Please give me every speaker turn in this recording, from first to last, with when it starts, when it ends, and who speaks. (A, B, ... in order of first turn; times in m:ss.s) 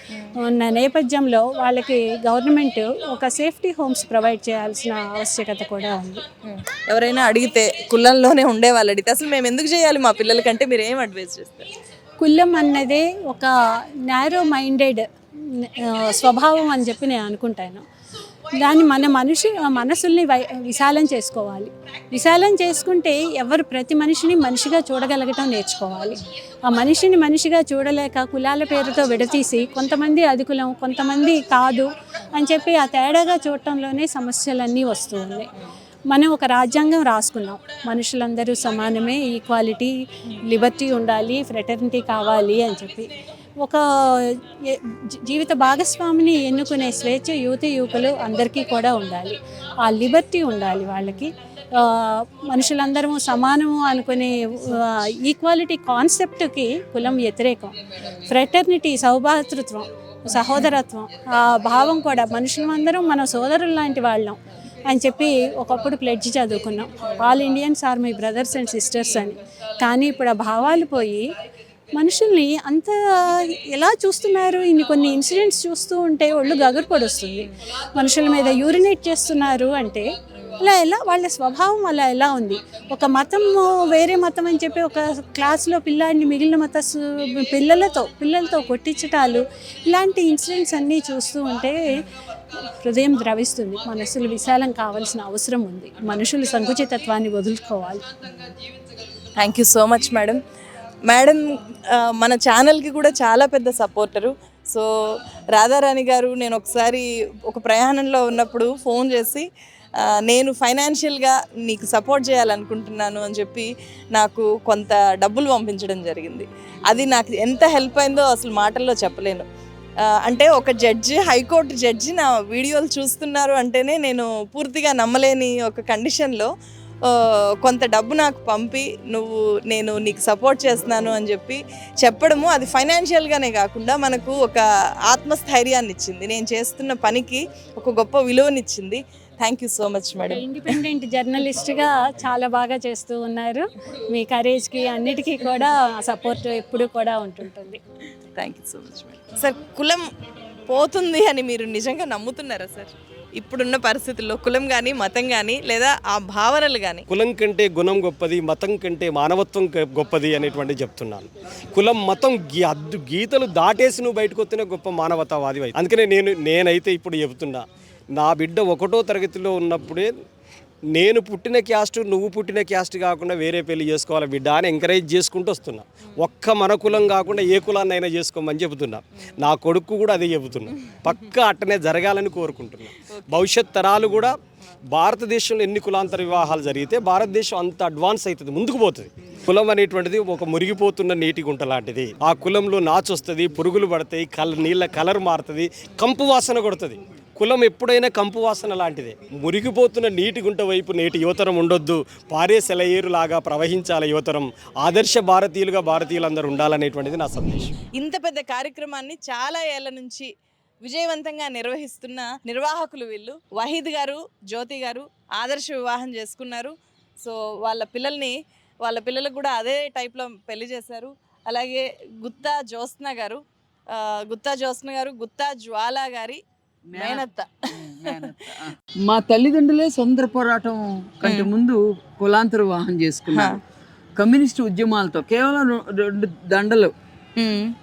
0:00.4-0:06.2 A
0:06.4-0:11.7 B
0:12.2-0:13.5 A
0:14.0-0:15.1 A
0:15.6-0:17.8 A
0:18.6-0:35.5 A
0:36.1-0:43.1 A
0:43.6-1:11.2 A
1:00.3-1:00.7 B
1:12.0-1:32.0 A
1:32.7-1:38.0 A
1:39.4-1:40.4 B
1:41.0-1:44.9 B
1:45.5-1:49.4 B
1:50.0-1:59.4 B
2:00.1-2:06.5 B
2:07.1-2:20.4 B
2:20.3-2:27.8 A
2:28.4-2:30.0 B
2:30.7-2:37.0 B
2:37.1-2:47.6 C
2:48.2-2:50.1 C
2:50.9-3:04.4 C
3:03.1-3:03.4 B
3:04.9-3:27.7 C
3:27.9-3:30.3 B
3:30.8-3:46.4 B
3:46.9-3:47.2 D
3:47.0-3:47.5 B
3:47.8-3:53.6 D
3:53.3-3:53.6 B
3:54.2-3:56.9 D
3:57.4-3:57.7 B